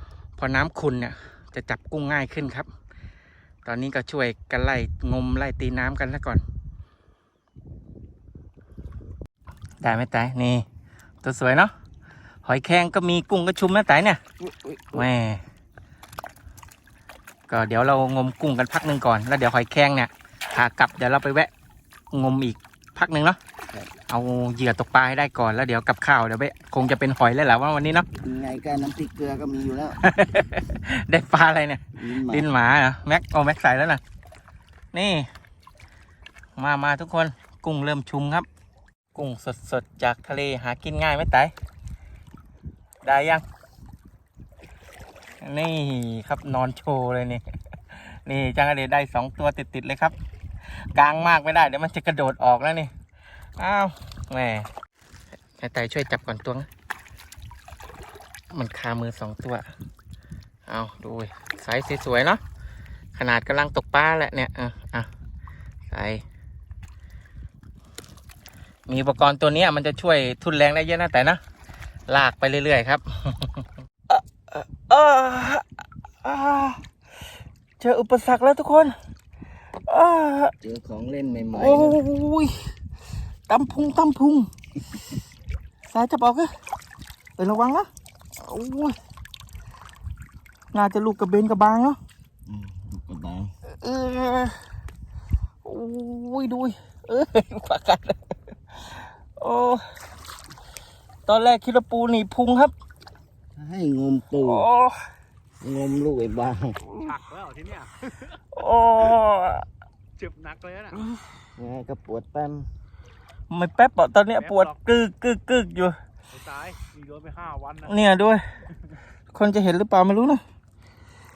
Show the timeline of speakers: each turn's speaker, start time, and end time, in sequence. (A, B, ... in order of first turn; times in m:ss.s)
0:00.4-0:02.7 A
0:03.6-0:06.4 A
0:09.8-0:10.6 A
0:11.2-0:11.7 A
0:12.4-0:14.2 A
0:14.4-0:15.0 B
0:14.9-0:15.4 A
0:17.5-0:21.5 A
0:22.1-0:23.4 A
0:24.1-0:28.1 A
0:28.2-0:30.0 B
0:30.0-0:34.0 A
0:32.0-0:32.5 B
0:34.9-0:35.3 A
0:36.6-0:38.5 A
0:39.1-0:41.5 A
0:43.0-0:43.4 A
0:45.4-0:50.1 A
0:50.9-0:52.9 A
0:53.6-0:54.7 A
0:55.6-0:56.7 A
0:58.5-0:59.7 A
1:00.7-1:02.4 A
1:03.1-1:05.1 A
1:05.9-1:06.2 A
1:08.9-1:11.4 A
1:12.1-1:16.8 A
1:17.8-1:18.9 A
1:19.8-1:20.5 A
1:20.6-1:22.0 B
1:21.5-1:22.7 A
1:23.5-1:24.5 A
1:25.9-1:26.5 A
1:27.4-1:29.0 A
1:30.7-1:32.0 A
1:32.5-1:33.5 B
1:33.7-1:34.6 A
1:35.6-1:39.9 A
1:41.3-1:42.7 A
1:43.6-1:44.6 B
1:44.4-1:45.1 A
1:45.6-1:46.9 B
1:47.0-1:48.2 C
1:48.3-1:49.6 A
1:50.2-1:51.0 C
1:51.6-1:52.7 B
1:53.5-1:56.0 A
1:56.3-1:57.9 C
1:57.8-1:58.4 A
1:59.3-2:00.4 A